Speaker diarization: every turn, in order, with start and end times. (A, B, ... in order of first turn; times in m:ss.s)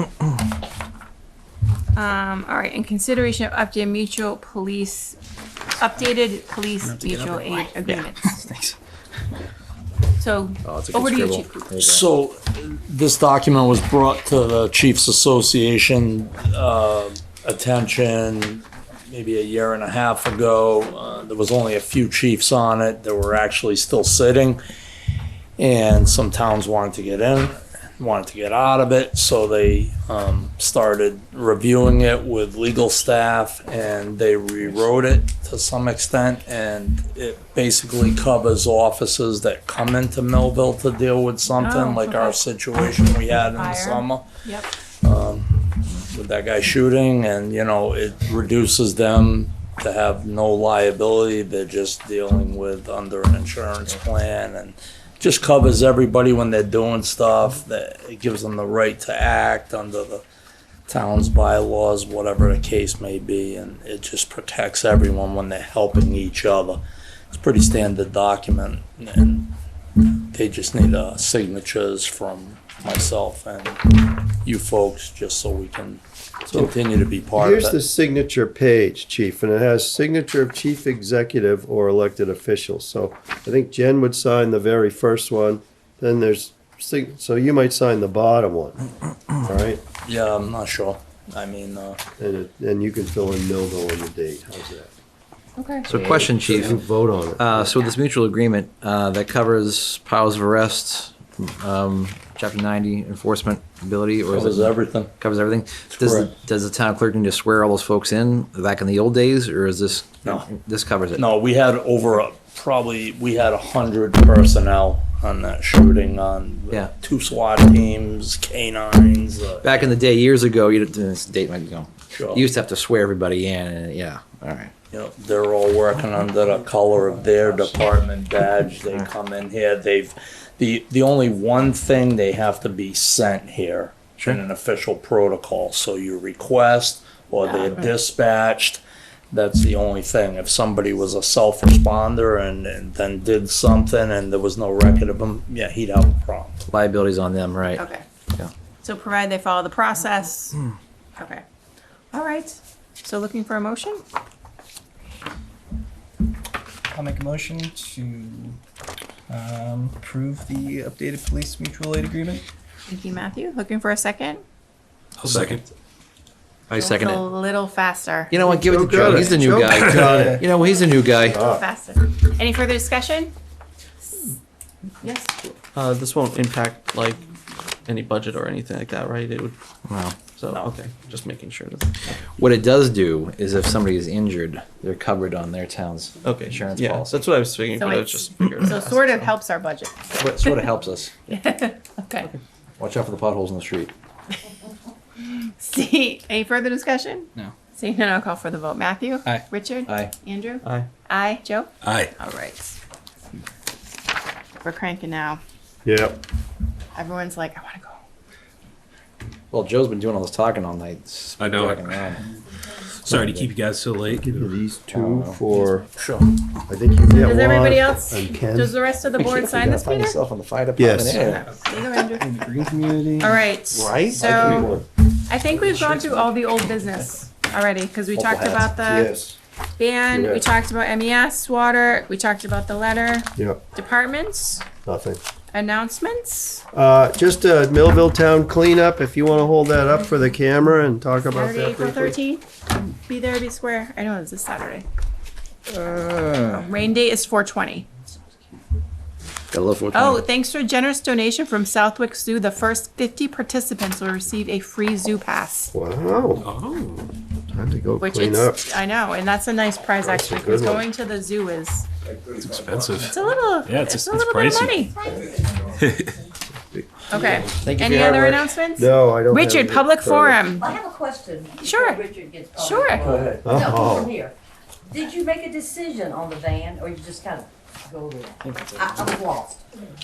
0:01.9-0:05.2 A
0:05.8-0:08.3 A
0:07.8-0:08.6 B
0:10.2-0:11.7 A
0:10.6-0:12.1 C
0:11.8-0:24.6 D
0:25.6-0:44.2 D
0:41.6-0:42.4 A
0:43.3-0:44.7 A
0:45.0-1:00.2 D
1:00.9-1:09.5 D
1:10.3-1:17.8 D
1:16.5-1:16.8 E
1:17.3-1:28.8 E
1:29.4-1:29.8 E
1:30.0-1:32.0 D
1:32.2-1:34.9 E
1:35.6-1:35.9 A
1:35.8-1:36.8 C
1:35.9-1:37.8 E
1:37.4-1:51.3 C
1:44.3-1:45.1 D
1:45.9-1:46.3 D
1:51.1-1:59.9 D
1:59.6-2:04.7 C
2:02.1-2:02.5 D
2:04.9-2:26.6 D
2:17.4-2:17.9 A
2:26.7-2:28.5 C
2:27.7-2:28.0 A
2:28.8-2:30.6 A
2:31.2-2:31.4 A
2:32.1-2:34.0 A
2:36.9-2:38.6 F
2:39.3-2:42.4 F
2:42.9-2:44.4 A
2:45.2-2:45.6 G
2:45.2-2:45.6 C
2:46.7-2:47.2 C
2:46.8-2:48.3 A
2:48.3-2:51.4 C
2:48.4-2:50.4 E
2:51.2-2:51.6 E
2:51.3-2:53.3 A
2:55.0-2:55.3 A
2:55.7-2:57.2 B
2:57.8-2:59.6 B
2:59.9-3:00.6 C
3:00.2-3:01.9 B
3:02.3-3:07.2 C
3:06.2-3:09.3 B
3:07.8-3:10.5 A
3:10.2-3:11.1 C
3:11.3-3:12.3 A
3:12.8-3:13.9 C
3:15.3-3:22.8 A
3:19.3-3:20.1 C
3:20.6-3:20.9 B
3:21.8-3:22.1 G
3:24.6-3:25.4 A
3:25.8-3:26.2 E
3:26.9-3:28.0 A
3:29.5-3:32.3 C
3:31.4-3:32.0 G
3:33.0-3:34.5 G
3:33.1-3:33.5 C
3:34.1-3:35.8 E
3:34.9-3:35.5 C
3:36.0-3:36.4 D
3:36.7-3:38.8 E
3:37.1-3:40.2 A
3:39.2-3:41.4 C
3:40.8-3:41.2 E
3:41.1-3:42.3 A
3:42.2-3:43.4 F
3:43.2-3:49.1 A
3:43.7-3:44.3 C
3:44.1-3:44.8 E
3:45.6-3:46.0 F
3:48.1-3:48.7 C
3:48.8-3:49.4 E
3:49.8-3:54.6 A
3:50.1-3:50.4 E
3:54.8-3:55.2 E
3:55.5-3:56.6 A
3:56.7-4:02.2 E
4:01.3-4:02.4 A
4:03.0-4:04.8 A
4:05.7-4:06.6 C
4:06.5-4:07.9 A
4:09.5-4:10.2 C
4:09.9-4:15.7 A
4:15.7-4:16.5 E
4:16.4-4:17.1 G
4:17.5-4:18.7 E
4:18.0-4:21.9 A
4:20.0-4:20.8 E
4:22.3-4:24.8 G
4:23.0-4:25.0 A
4:25.0-4:25.5 H
4:25.8-4:26.1 G
4:27.1-4:30.7 A
4:27.1-4:28.4 B
4:28.8-4:30.4 E
4:30.6-4:34.3 H
4:31.6-4:32.0 A
4:32.6-4:33.1 A
4:33.0-4:33.6 D
4:33.4-4:34.2 E
4:34.9-4:39.6 H